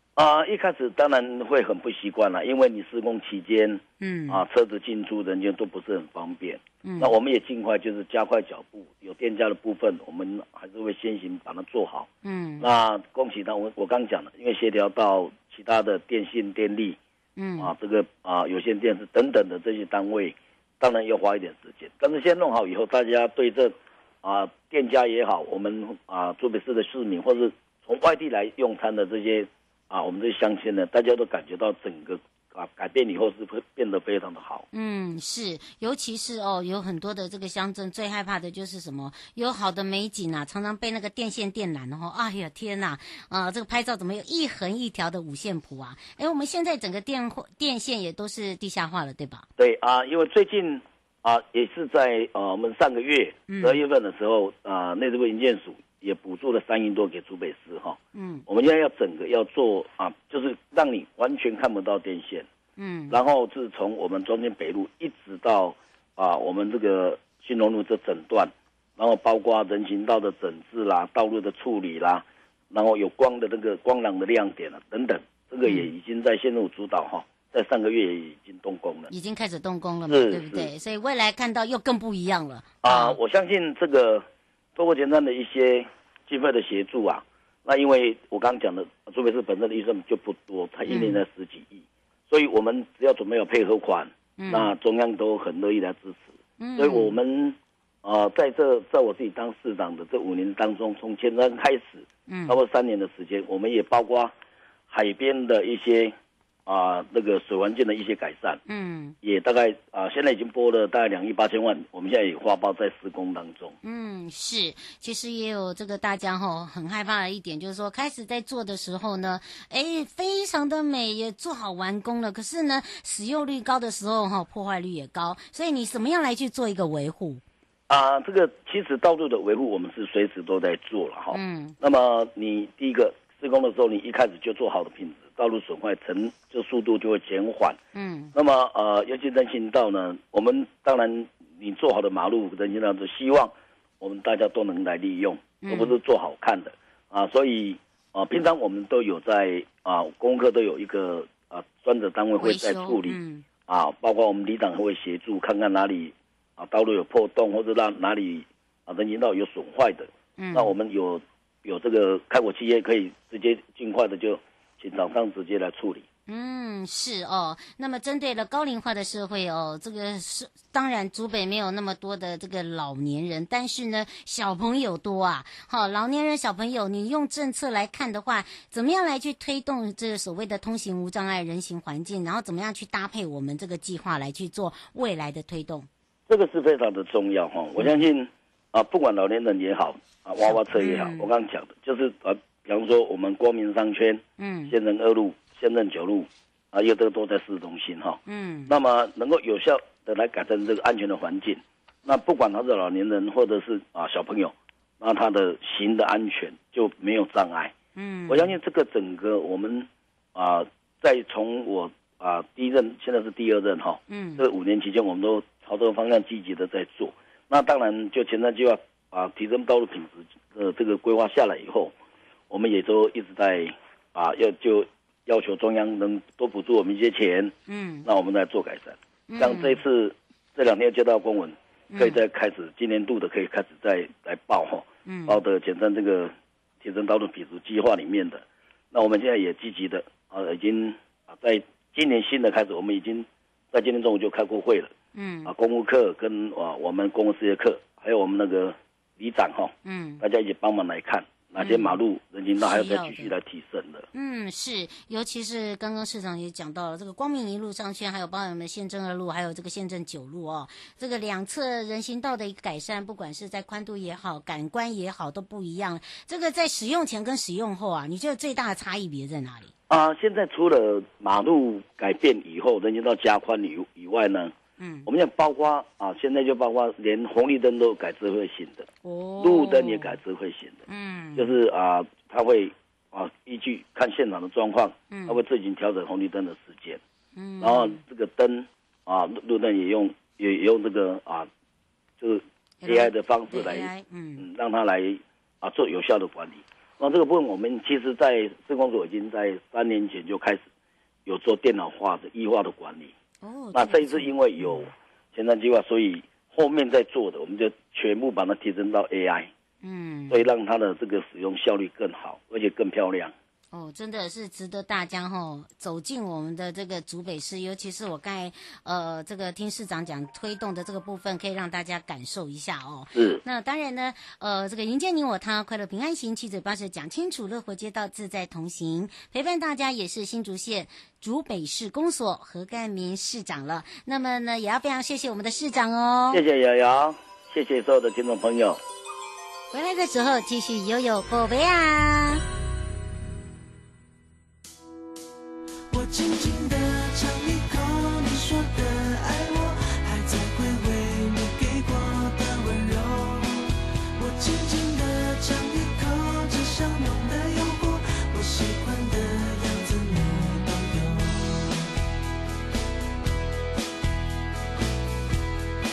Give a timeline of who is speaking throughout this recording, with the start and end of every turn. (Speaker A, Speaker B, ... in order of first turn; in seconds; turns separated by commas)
Speaker A: 0.2-12.1, Speaker B: 4.0-4.4, Speaker B: 6.8-7.1, Speaker B: 12.2-12.7, Speaker A: 12.6-17.0, Speaker B: 17.4-17.7, Speaker A: 17.6-34.7, Speaker B: 34.7-49.5, Speaker A: 49.6-62.5, Speaker B: 53.5-53.8, Speaker B: 58.1-58.5, Speaker B: 62.8-63.2, Speaker A: 63.1-79.1, Speaker B: 79.1-83.2, Speaker A: 80.1-80.7, Speaker A: 82.8-84.2, Speaker A: 84.8-104.3, Speaker B: 90.9-91.2, Speaker B: 94.4-94.7, Speaker B: 96.6-97.2, Speaker B: 102.3-102.6, Speaker A: 104.9-106.2, Speaker A: 106.7-108.6, Speaker B: 108.7-109.2, Speaker A: 109.2-113.7, Speaker B: 113.8-127.4, Speaker A: 127.9-137.8, Speaker B: 131.3-131.8, Speaker B: 137.9-138.3, Speaker A: 138.3-166.1, Speaker B: 145.6-146.0, Speaker B: 152.4-153.4, Speaker B: 160.4-160.7, Speaker B: 166.3-185.9, Speaker A: 186.3-207.7, Speaker B: 187.8-188.1, Speaker B: 190.5-191.3, Speaker B: 194.4-194.8, Speaker B: 198.3-198.7, Speaker B: 208.0-208.6, Speaker A: 208.3-221.9, Speaker B: 214.1-214.4, Speaker A: 222.5-227.5, Speaker B: 227.7-228.1, Speaker A: 228.1-244.9, Speaker B: 229.3-229.8, Speaker B: 231.9-232.2, Speaker B: 235.1-235.4, Speaker B: 245.1-245.5, Speaker A: 245.4-254.1, Speaker B: 249.8-250.2, Speaker B: 251.6-252.0, Speaker B: 252.6-253.3, Speaker B: 254.1-269.7, Speaker A: 269.9-274.5, Speaker B: 274.8-275.1, Speaker A: 275.1-280.8, Speaker B: 279.0-280.2, Speaker B: 280.9-281.5, Speaker A: 281.4-287.0, Speaker B: 285.1-285.4, Speaker B: 287.4-288.0, Speaker A: 287.6-291.5, Speaker A: 292.2-300.7, Speaker B: 292.8-294.5, Speaker A: 301.3-303.1, Speaker B: 303.4-304.7, Speaker A: 303.7-309.5, Speaker B: 309.8-310.5, Speaker A: 310.3-313.3, Speaker B: 313.7-336.4, Speaker A: 323.1-323.4, Speaker A: 336.3-338.8, Speaker B: 339.7-342.4, Speaker C: 345.9-361.9